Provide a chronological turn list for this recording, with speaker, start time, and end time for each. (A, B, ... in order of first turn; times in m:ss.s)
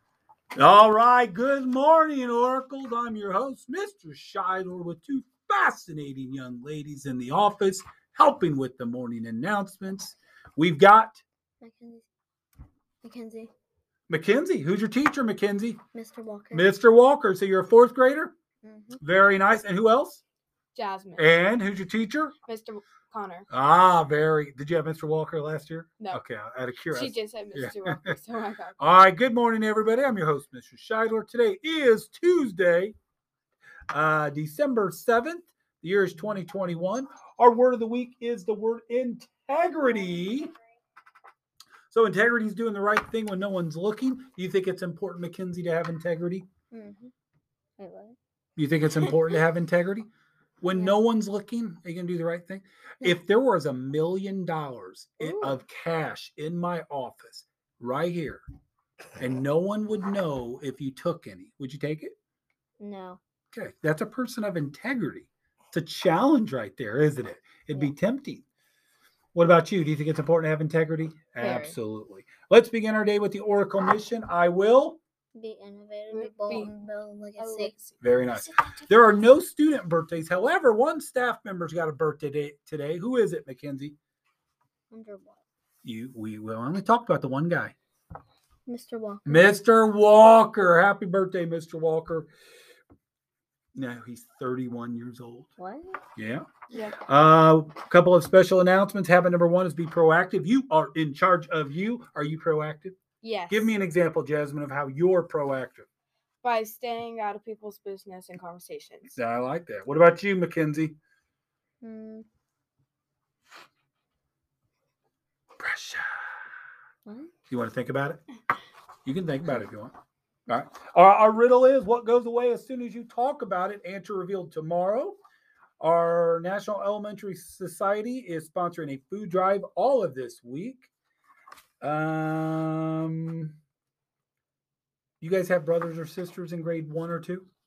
0:00.6-0:11.2 A
0:11.6-0:12.0 B
0:13.0-0:13.5 B
0:14.1-0:15.8 A
0:15.9-0:16.7 B
0:16.5-0:18.3 A
0:18.6-0:19.0 B
0:19.0-0:20.2 A
0:20.7-0:21.3 C
0:21.2-0:22.3 A
0:22.4-0:23.5 C
0:23.5-0:28.2 A
0:26.9-0:28.8 C
0:28.8-0:32.9 A
0:33.9-0:40.5 A
0:41.9-0:46.4 A
0:46.7-0:47.1 B
0:47.8-0:48.2 B
0:48.6-0:50.1 A
0:50.6-0:58.4 A
0:50.7-0:51.0 B
0:55.2-0:55.6 B
0:59.2-1:02.1 A
1:02.8-1:03.2 B
1:03.5-1:08.4 A
1:09.3-1:15.0 A
1:11.4-1:11.8 B
1:15.4-1:17.8 B
1:16.1-1:16.7 C
1:17.4-1:18.0 C
1:18.0-1:24.0 A
1:24.9-1:25.4 B
1:25.8-1:27.7 A
1:28.7-1:29.6 B
1:29.2-1:32.3 A
1:33.7-1:35.5 A
1:35.6-1:36.0 B
1:36.2-1:36.5 A
1:36.7-1:37.0 C
1:37.0-1:43.0 A
1:43.2-1:43.7 C
1:43.5-1:45.9 A
1:46.4-1:49.2 C
1:49.2-1:50.9 A
1:51.8-1:52.2 B
1:55.6-1:56.0 A
1:57.0-1:57.3 B
1:57.5-1:58.2 A
1:59.0-1:59.9 A
2:00.5-2:05.2 A
2:05.8-2:10.9 A
2:11.8-2:13.5 A
2:15.2-2:17.5 A